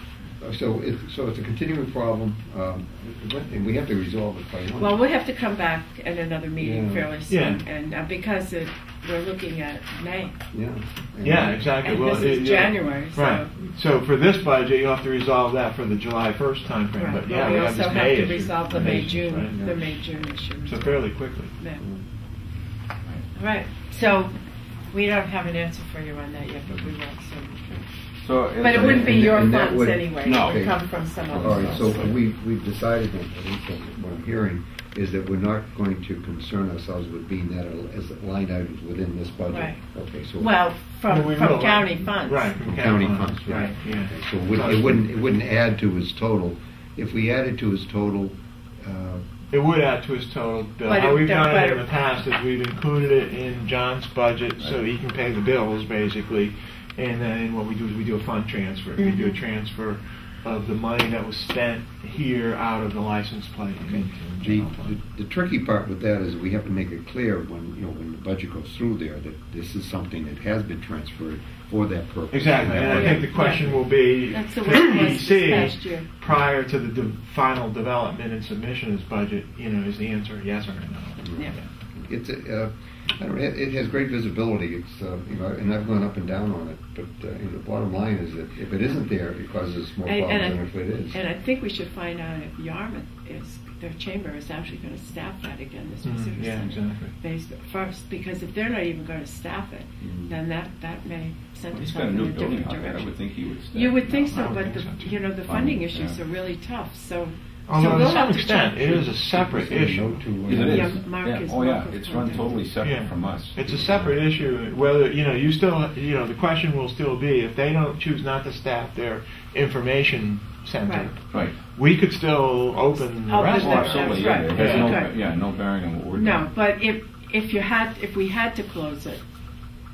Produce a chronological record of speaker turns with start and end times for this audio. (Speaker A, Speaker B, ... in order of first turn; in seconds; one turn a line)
Speaker A: 0.4-5.0
Speaker B: 4.8-10.4
Speaker A: 6.6-7.1
Speaker C: 7.3-7.6
Speaker A: 10.5-11.7
Speaker C: 11.2-19.6
Speaker B: 11.8-13.5
Speaker B: 17.0-21.8
Speaker A: 18.7-19.8
Speaker C: 20.6-21.6
Speaker B: 23.3-24.4
Speaker B: 24.9-27.9
Speaker D: 28.2-29.4
Speaker B: 28.6-32.1
Speaker A: 28.7-30.8
Speaker D: 30.2-32.1
Speaker A: 31.3-40.5
Speaker B: 39.5-39.8
Speaker B: 40.4-42.6
Speaker C: 41.1-45.1
Speaker A: 42.6-49.2
Speaker B: 43.5-43.7
Speaker C: 49.5-65.0
Speaker B: 50.9-51.9
Speaker B: 59.0-59.3
Speaker A: 64.4-73.3
Speaker C: 72.3-81.7
Speaker B: 72.9-76.1
Speaker A: 81.2-91.2
Speaker B: 90.0-103.2
Speaker C: 96.0-97.2
Speaker A: 100.0-100.3
Speaker D: 101.7-104.5
Speaker B: 103.7-109.1
Speaker C: 104.3-105.2
Speaker D: 105.4-106.2
Speaker C: 107.7-110.4
Speaker A: 109.3-111.0
Speaker D: 110.5-114.5
Speaker B: 110.5-112.7
Speaker C: 112.8-125.0
Speaker B: 120.8-121.1
Speaker D: 121.3-121.6
Speaker B: 123.0-125.2
Speaker D: 123.4-126.5
Speaker B: 126.1-129.2